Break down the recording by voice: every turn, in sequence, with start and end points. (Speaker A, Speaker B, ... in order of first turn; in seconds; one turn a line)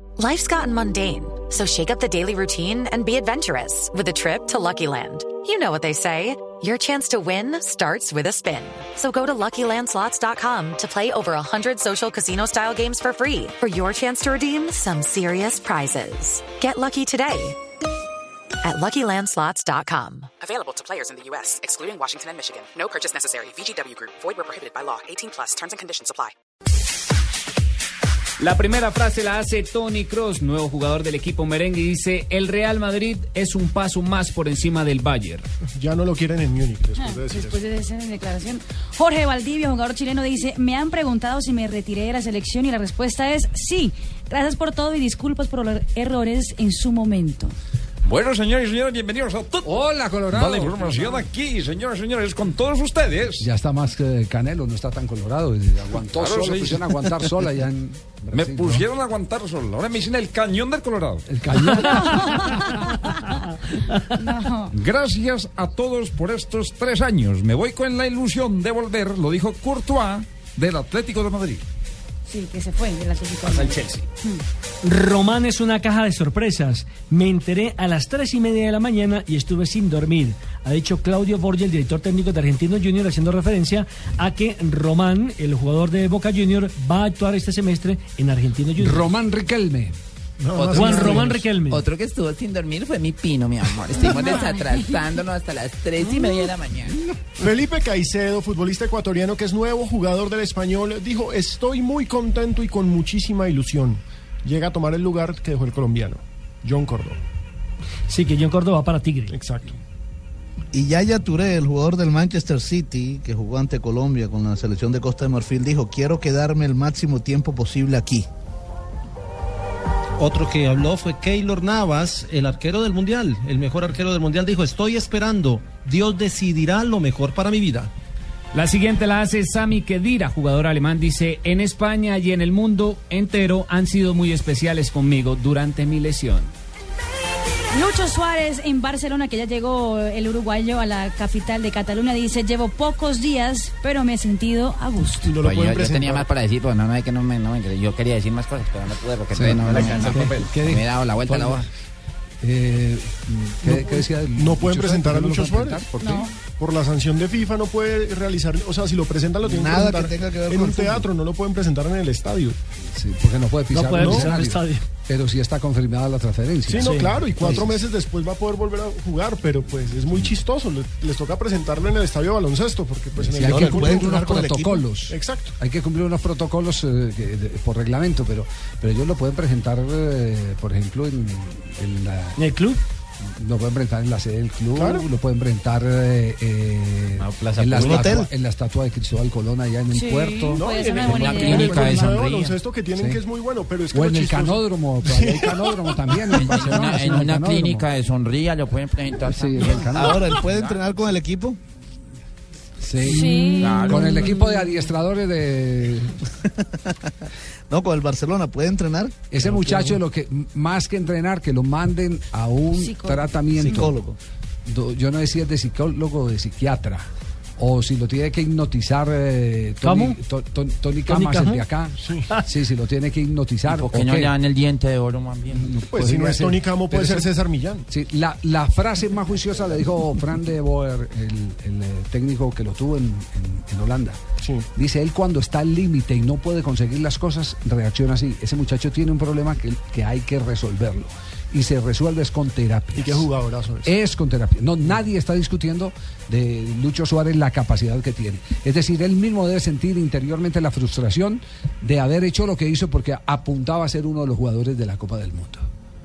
Speaker A: 0.2-17.6
Speaker A: 18.6-20.3
Speaker B: 20.4-26.2
Speaker C: 28.4-35.5
Speaker D: 35.8-37.6
Speaker E: 37.0-47.5
Speaker F: 48.0-49.7
Speaker G: 49.6-51.2
Speaker F: 50.3-53.5
Speaker G: 53.4-58.9
Speaker F: 56.1-57.3
Speaker F: 58.3-61.2
Speaker G: 61.3-63.0
Speaker E: 62.0-63.3
Speaker E: 64.1-64.7
Speaker F: 64.7-71.6
Speaker E: 72.2-74.4
Speaker H: 73.5-74.0
Speaker H: 74.8-89.1
Speaker G: 88.8-89.9
Speaker D: 90.4-91.4
Speaker I: 90.5-97.0
Speaker H: 90.7-91.8
Speaker D: 97.4-107.2
Speaker H: 108.1-109.3
Speaker D: 109.3-109.8
Speaker J: 110.7-118.3
Speaker K: 120.2-127.9
Speaker C: 128.5-136.5
Speaker E: 137.7-145.3
Speaker D: 145.2-146.3
Speaker I: 145.4-151.7
Speaker G: 149.3-151.7
Speaker F: 149.6-150.5
Speaker G: 152.4-156.3
Speaker D: 153.7-155.9
Speaker E: 156.0-156.3
Speaker D: 156.4-162.6
Speaker J: 159.4-161.1
Speaker G: 162.9-167.8
Speaker H: 163.7-164.8
Speaker D: 163.9-164.3
Speaker D: 166.7-174.3
Speaker H: 166.8-167.6
Speaker G: 170.1-170.4
Speaker G: 173.2-182.4
Speaker J: 173.3-174.8
Speaker D: 175.0-175.5
Speaker H: 182.3-182.8
Speaker G: 183.3-191.6
Speaker D: 184.8-185.1
Speaker I: 187.2-188.0
Speaker J: 187.8-188.3
Speaker E: 189.9-192.2
Speaker D: 190.5-196.2
Speaker I: 191.0-192.6
Speaker G: 192.9-193.2
Speaker G: 193.9-197.9
Speaker I: 196.3-200.8
Speaker G: 199.2-200.3
Speaker J: 199.9-201.6
Speaker G: 202.8-206.2
Speaker E: 203.0-204.5
Speaker I: 203.5-204.4
Speaker J: 206.6-207.1
Speaker J: 207.7-209.2
Speaker G: 209.3-214.0
Speaker I: 209.4-209.9
Speaker E: 212.7-213.3
Speaker J: 213.5-214.2
Speaker G: 214.7-224.3
Speaker H: 219.8-220.2
Speaker H: 221.1-221.7
Speaker D: 222.0-222.3
Speaker I: 223.7-225.8
Speaker G: 225.5-227.3
Speaker D: 225.9-227.8
Speaker G: 227.9-234.2
Speaker D: 234.4-234.7
Speaker G: 234.7-243.3
Speaker D: 242.9-243.9
Speaker G: 243.8-255.7